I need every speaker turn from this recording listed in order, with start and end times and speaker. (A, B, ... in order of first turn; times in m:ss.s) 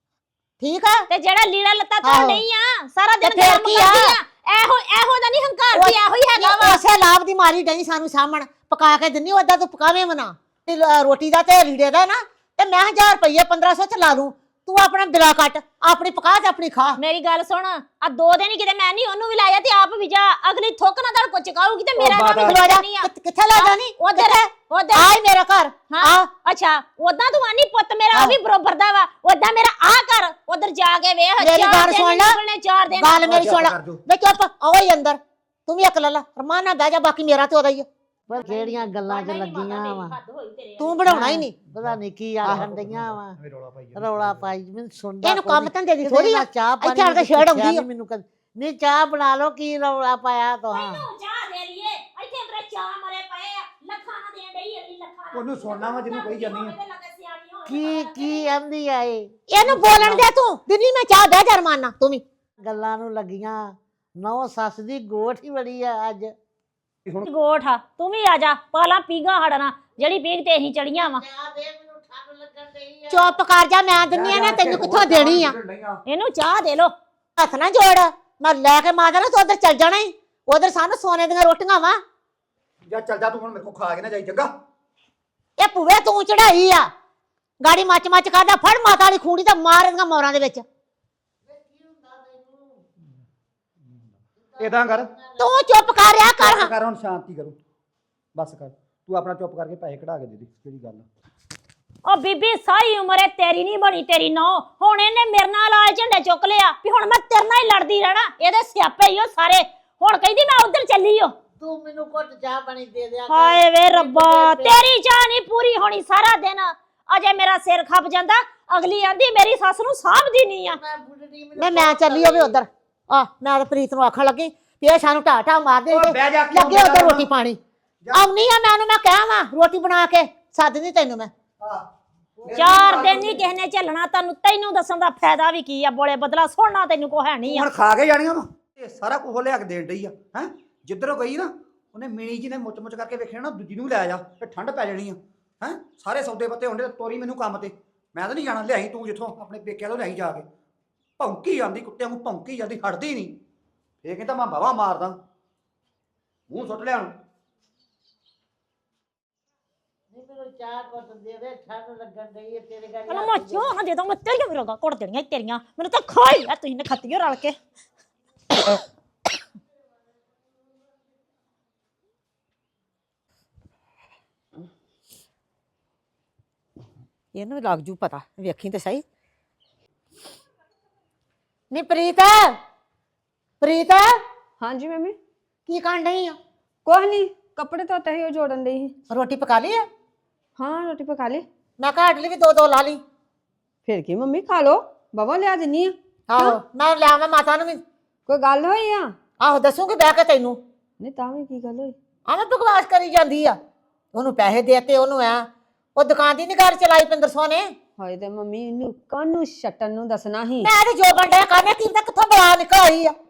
0:00.6-0:01.1 A
0:01.1-0:06.8 B
0:02.0-0:02.4 A
0:03.2-0:04.2 A
0:05.7-0:17.0 A
0:17.0-0:25.1 B
0:22.0-0:22.6 C
0:22.4-0:26.3 A
0:25.9-0:33.3 B
0:31.4-0:32.4 A
0:32.9-0:37.9 A
0:33.2-0:34.0 C
0:38.3-0:40.2 D
0:38.4-0:41.1 B
0:40.8-0:41.7 A
0:41.1-0:43.4 D
0:41.7-0:44.6 C
0:44.0-0:51.1 D
0:45.2-0:47.9 A
0:50.7-0:58.6 B
0:55.3-0:56.8 C
0:57.7-1:00.3 D
0:59.5-1:02.2 A
1:02.6-1:06.4 D
1:07.2-1:11.2 B
1:11.2-1:13.4 D
1:13.1-1:15.6 A
1:14.0-1:16.0 C
1:16.1-1:16.9 B
1:17.4-1:22.0 A
1:22.9-1:24.5 C
1:25.6-1:26.9 A
1:27.6-1:30.6 A
1:31.5-1:32.8 D
1:34.6-1:35.1 C
1:35.3-1:36.2 D
1:35.4-1:36.7 A
1:36.4-1:37.6 C
1:38.4-1:41.1 C
1:42.0-1:51.4 B
1:51.6-1:54.8 D
1:53.3-2:00.8 B
2:00.7-2:02.6 D
2:01.6-2:07.6 A
2:05.9-2:07.3 C
2:08.1-2:11.3 A
2:11.6-2:11.9 C
2:12.4-2:13.4 C
2:12.6-2:17.7 B
2:17.5-2:30.5 C
2:31.2-2:33.4 C
2:34.0-2:35.2 C
2:36.5-2:37.1 C
2:40.1-2:43.7 D
2:43.1-2:47.6 B
2:57.3-2:59.0 A
3:01.7-3:02.6 A
3:03.6-3:04.1 A
3:04.6-3:05.2 E
3:05.7-3:06.4 A
3:06.8-3:08.9 E
3:09.1-3:09.8 A
3:10.6-3:11.4 E
3:11.8-3:13.0 A
3:13.8-3:16.6 E
3:16.3-3:17.8 A
3:18.3-3:19.1 E
3:19.4-3:20.6 A
3:21.0-3:21.9 E
3:22.3-3:23.6 A
3:24.1-3:27.7 A
3:28.0-3:30.7 E
3:30.6-3:33.2 A